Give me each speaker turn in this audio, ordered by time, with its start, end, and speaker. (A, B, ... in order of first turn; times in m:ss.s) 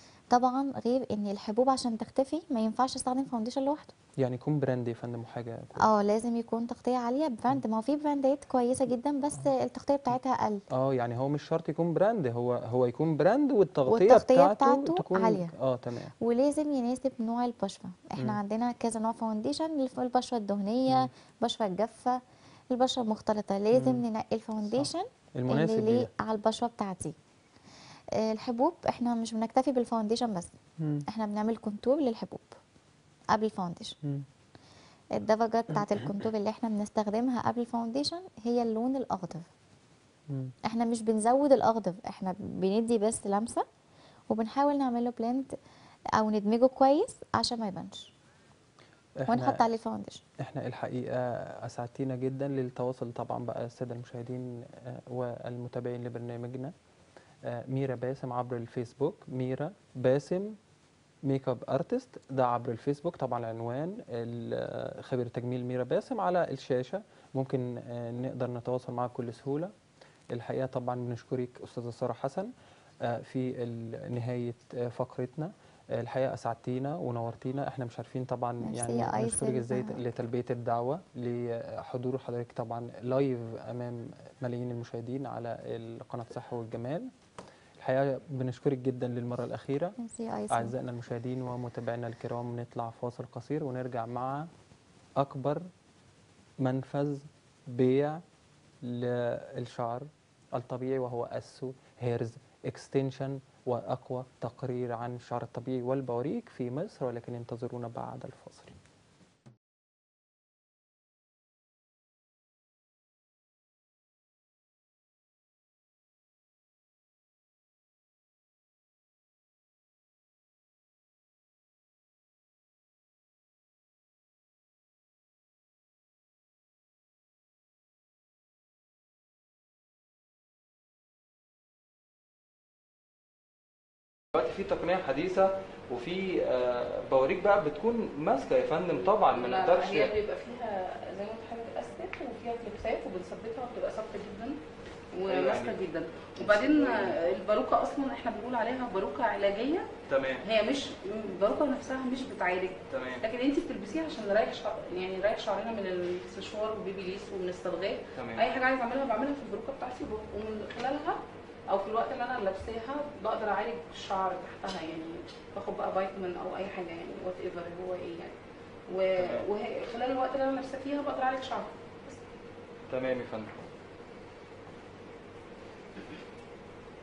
0:00.3-0:03.9 A
0:04.2-0:05.8 B
0:05.8-0:10.6 A
0:10.7-0:16.1 B
0:13.9-0:15.5 A
0:16.2-0:27.1 A
0:23.7-0:24.0 B
0:24.7-0:26.1 B
0:28.2-0:30.5 A
0:30.8-0:31.0 B
0:31.1-0:32.5 A
0:33.3-0:34.0 A
0:35.1-0:39.5 A
0:40.6-0:43.6 A
0:44.3-0:45.5 A
0:46.2-0:48.1 A
0:49.2-0:49.7 B
0:49.3-0:50.2 A
0:50.4-0:56.7 B
0:57.4-1:00.6 B
1:01.2-1:09.7 B
1:10.3-1:12.5 B
1:13.0-1:27.1 B
1:18.6-1:20.0 A
1:27.8-1:30.0 B
1:30.0-1:30.7 A
1:30.5-1:34.5 B
1:35.2-1:35.6 B
1:36.6-1:38.2 B
1:38.8-1:48.8 B
2:14.3-2:20.1 B
2:19.1-2:24.6 C
2:25.1-2:29.9 C
2:25.3-2:25.8 B
2:26.4-2:27.1 B
2:30.1-2:30.4 B
2:30.4-2:41.2 C
2:32.9-2:33.2 B
2:38.2-2:38.4 B
2:41.7-2:48.4 C
2:48.9-2:52.2 C
2:49.2-2:49.4 B
2:52.9-2:53.5 B